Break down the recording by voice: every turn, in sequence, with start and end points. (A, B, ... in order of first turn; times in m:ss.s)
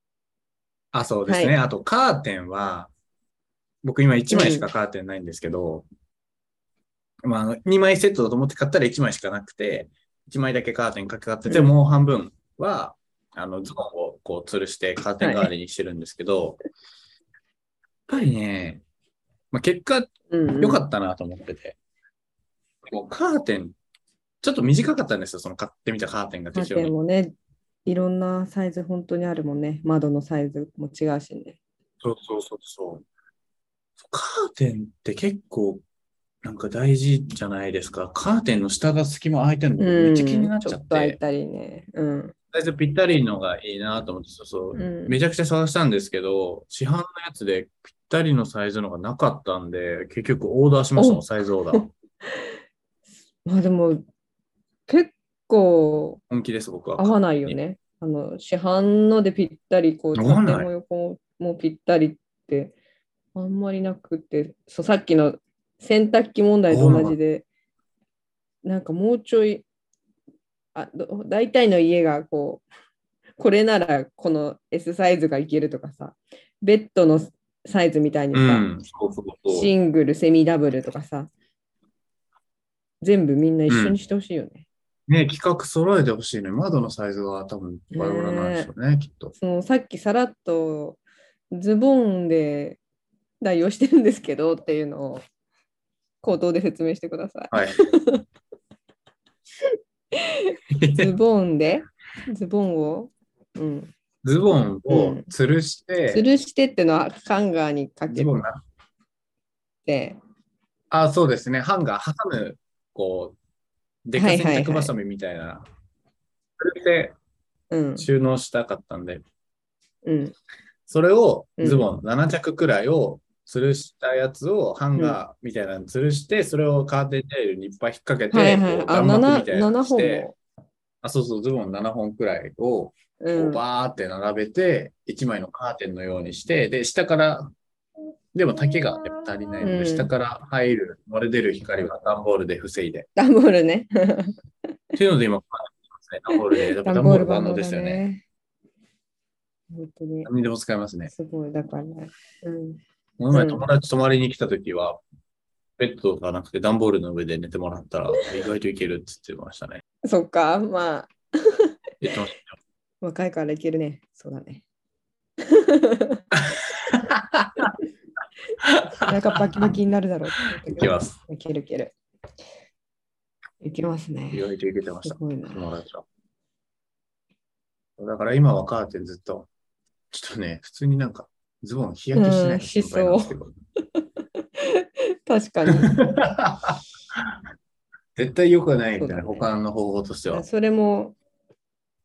0:00.9-0:02.9 A
0:01.3-0:01.6 B
0:03.8-0:05.9 A
0:04.3-0:04.7 B
0:07.2-0:16.6 A
0:11.5-0:11.7 B
0:15.2-0:15.5 B
0:18.1-0:18.8 A
0:19.5-0:21.8 A
0:20.3-0:20.8 B
0:22.9-0:23.8 A
0:24.4-0:26.9 A
0:26.5-0:31.6 B
0:32.0-0:33.0 A
0:34.0-0:35.8 A
0:36.4-0:41.2 A
0:39.8-0:42.4 B
0:42.5-0:51.9 A
0:44.7-0:45.2 B
0:51.0-0:52.5 B
0:53.4-0:54.0 B
0:54.9-0:56.2 B
0:56.3-0:57.6 A
0:57.0-1:02.8 B
1:00.1-1:00.7 A
1:03.3-1:07.5 B
1:06.7-1:07.2 A
1:08.6-1:09.6 B
1:10.7-1:12.6 B
1:13.4-1:18.7 B
1:18.3-1:19.7 A
1:19.5-1:21.3 B
1:23.0-1:24.6 B
1:23.7-1:24.0 A
1:25.1-1:29.4 A
1:27.9-1:28.7 B
1:29.4-1:31.0 B
1:31.5-1:32.8 B
1:33.4-1:35.2 B
1:36.2-1:38.2 B
1:37.5-1:37.8 A
1:40.2-1:43.9 B
1:40.7-1:41.1 A
1:44.2-1:46.3 A
1:44.9-1:45.3 B
1:46.1-1:48.3 B
1:48.1-1:48.6 A
1:49.8-1:50.2 B
1:50.9-1:53.4 A
1:54.1-1:55.7 A
1:54.2-1:54.9 B
1:56.6-1:57.2 A
1:57.7-1:58.1 B
1:58.0-1:59.2 A
2:00.0-2:00.4 B
2:00.9-2:10.3 A
2:01.6-2:01.9 B
2:08.3-2:10.4 B
2:11.0-2:17.5 A
2:13.2-2:13.6 B
2:18.4-2:23.1 A
2:19.6-2:20.1 B
2:23.2-2:24.4 B
2:25.0-2:28.0 A
2:26.3-2:28.2 B
2:29.7-2:30.3 B
2:30.2-2:31.1 A
2:31.1-2:32.8 B
2:33.2-2:35.0 A
2:33.3-2:33.7 B
2:35.8-2:39.8 A
2:40.0-2:41.7 B
2:42.0-2:42.5 A
2:43.0-2:44.6 B
2:45.4-2:46.2 B
2:46.8-2:47.7 A
2:48.7-2:51.9 B
2:49.0-2:49.8 A
2:50.6-2:51.2 A
2:53.6-2:54.4 B
2:54.3-2:56.0 A
2:55.0-2:55.6 B
2:58.0-2:59.5 A
3:00.1-3:03.5 A
3:02.1-3:03.4 B
3:04.0-3:06.0 B
3:05.7-3:06.8 A
3:08.2-3:10.5 A
3:09.0-3:09.5 B
3:10.3-3:11.2 B